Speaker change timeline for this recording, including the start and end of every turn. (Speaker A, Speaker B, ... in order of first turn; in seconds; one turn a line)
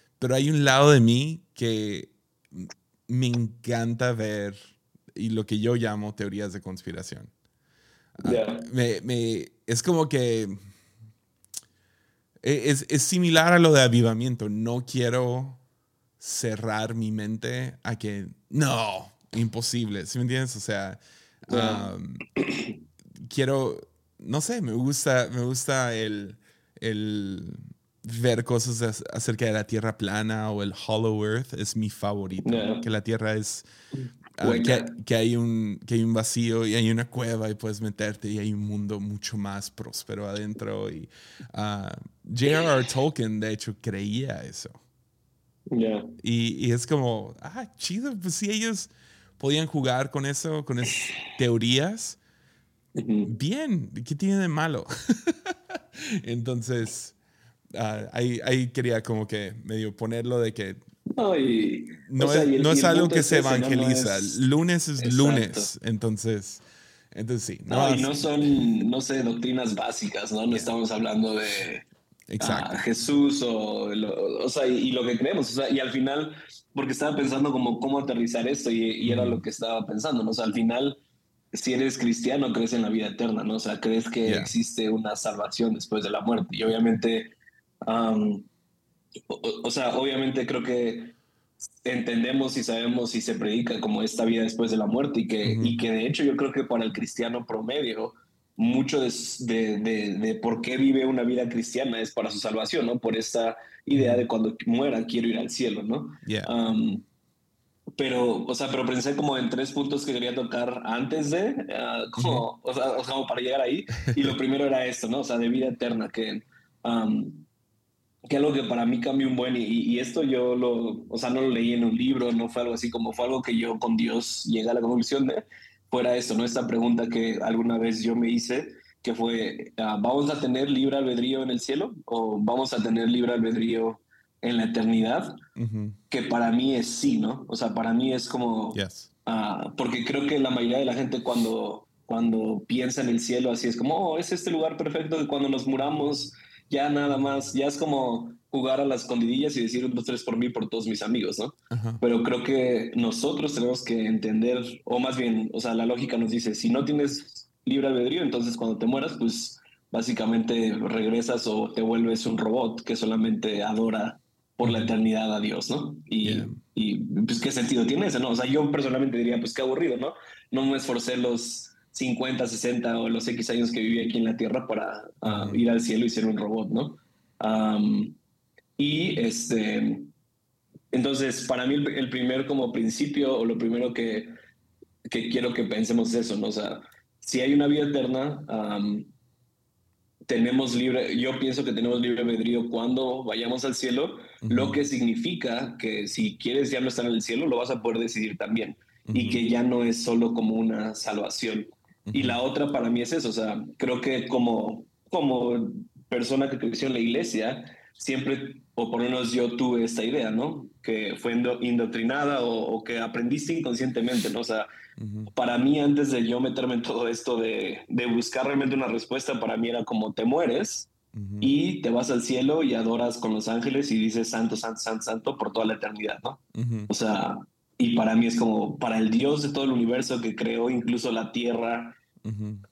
Speaker A: 0.2-7.3
Speaker A: 8.2-10.6
Speaker B: 8.2-8.7
Speaker A: 12.4-15.6
Speaker A: 16.2-22.2
Speaker B: 21.5-22.7
Speaker A: 23.2-33.6
Speaker B: 32.4-32.9
Speaker A: 34.4-44.7
Speaker B: 34.4-34.9
Speaker B: 45.7-46.1
Speaker A: 46.2-52.2
Speaker B: 52.9-53.3
Speaker A: 53.2-57.1
Speaker A: 57.7-60.8
Speaker B: 61.1-64.4
Speaker A: 62.1-68.5
Speaker B: 65.0-65.7
Speaker B: 67.7-71.9
Speaker A: 72.3-72.8
Speaker B: 72.4-81.0
Speaker A: 79.0-79.4
Speaker B: 81.5-88.5
Speaker A: 84.2-84.5
Speaker B: 89.3-91.1
Speaker B: 91.8-107.0
Speaker A: 95.4-95.8
Speaker A: 104.0-104.2
Speaker A: 106.2-106.5
Speaker B: 108.0-117.5
Speaker A: 112.2-112.4
Speaker B: 118.3-135.4
Speaker A: 135.6-136.0
Speaker B: 136.1-178.2
Speaker A: 138.7-139.1
Speaker A: 151.7-152.0
Speaker A: 164.6-164.9
Speaker A: 166.2-166.6
Speaker A: 175.2-175.6
Speaker B: 178.8-180.1
Speaker B: 180.9-184.3
Speaker B: 185.1-189.1
Speaker B: 190.3-214.7
Speaker A: 194.4-194.8
Speaker A: 199.1-199.4
Speaker A: 202.1-202.4
Speaker A: 215.0-215.3
Speaker B: 215.3-220.9
Speaker A: 221.1-221.5
Speaker B: 221.4-232.0
Speaker A: 226.5-226.9
Speaker A: 232.2-232.6